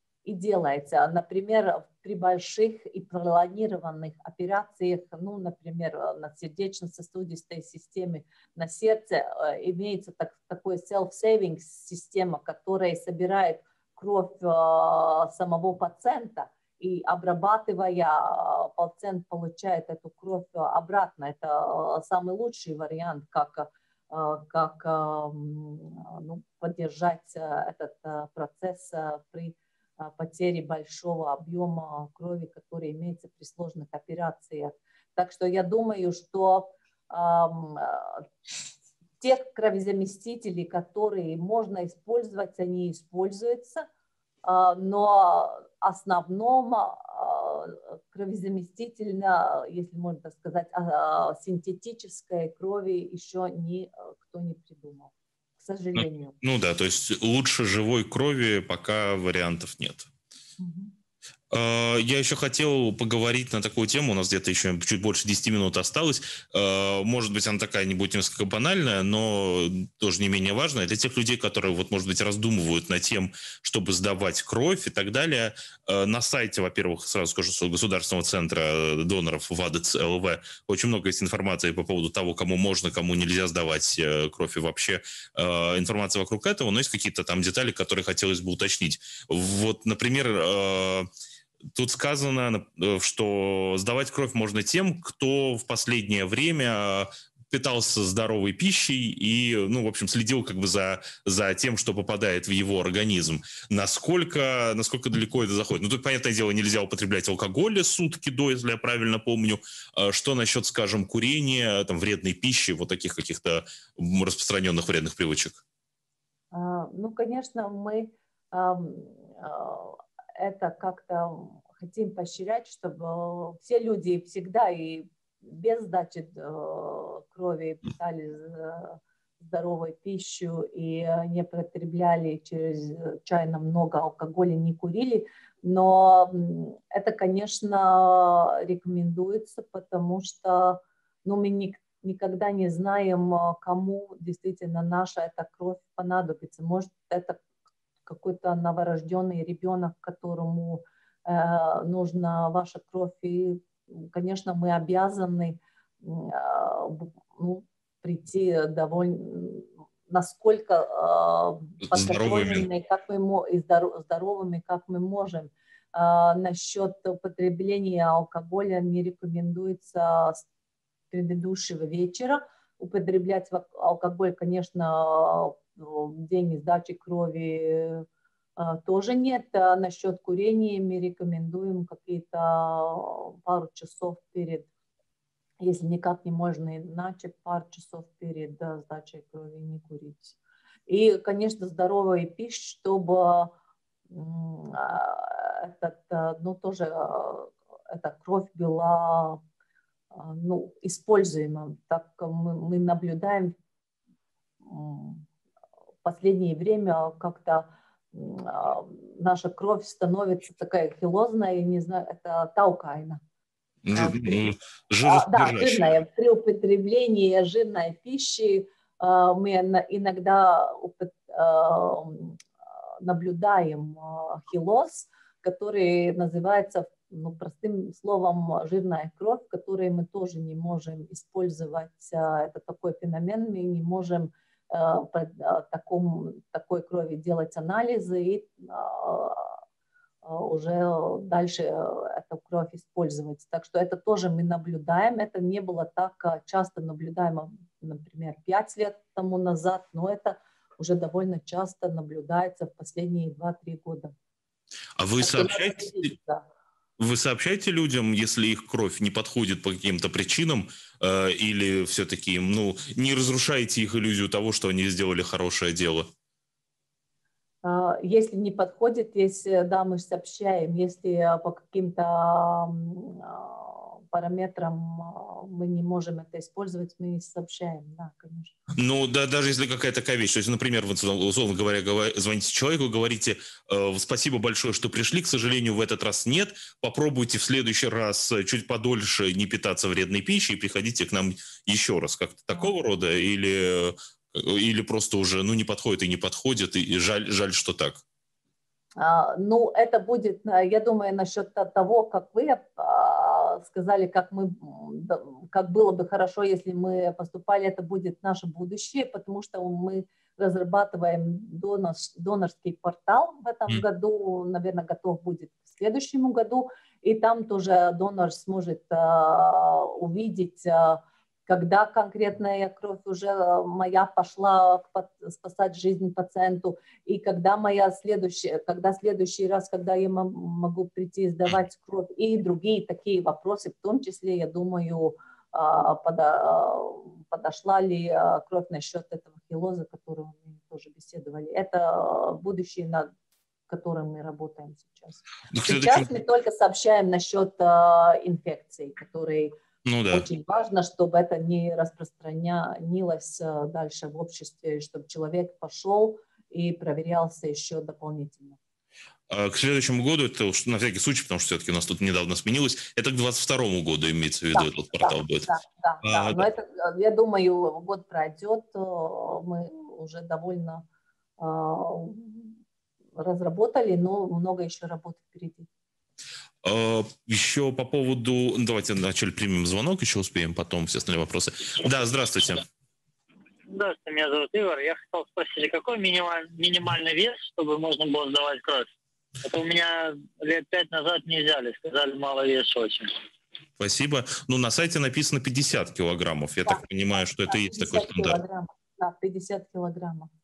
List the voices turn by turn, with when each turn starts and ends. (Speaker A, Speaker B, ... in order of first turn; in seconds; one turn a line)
Speaker A: 0.2-38.3
Speaker A: 39.2-43.9
Speaker A: 44.5-56.4
Speaker B: 56.0-60.1
Speaker A: 60.6-60.9
Speaker B: 61.5-91.1
Speaker B: 91.8-115.6
Speaker A: 116.5-147.4
Speaker A: 148.1-170.4
Speaker B: 161.9-162.7
Speaker A: 171.1-178.1
Speaker A: 178.6-184.7
Speaker A: 185.6-193.5
Speaker A: 194.1-199.4
Speaker A: 200.1-203.5
Speaker A: 204.7-205.2
Speaker A: 206.1-213.2
Speaker B: 213.8-216.0
Speaker A: 213.9-214.5
Speaker A: 215.0-222.4
Speaker A: 223.0-239.6
Speaker A: 240.2-254.1
Speaker B: 255.0-256.1
Speaker A: 255.2-256.4
Speaker B: 257.0-266.1
Speaker A: 267.6-278.6
Speaker B: 278.8-298.0
Speaker A: 299.0-343.1
Speaker A: 343.7-349.5
Speaker B: 345.5-346.1
Speaker B: 349.9-350.3
Speaker A: 350.1-358.6
Speaker B: 359.3-365.5
Speaker A: 364.5-370.9
Speaker B: 366.0-366.5
Speaker A: 371.4-372.6
Speaker A: 373.2-375.7
Speaker B: 376.6-382.6
Speaker C: 383.7-388.9
Speaker C: 389.4-393.1
Speaker B: 393.8-398.4
Speaker A: 397.5-400.3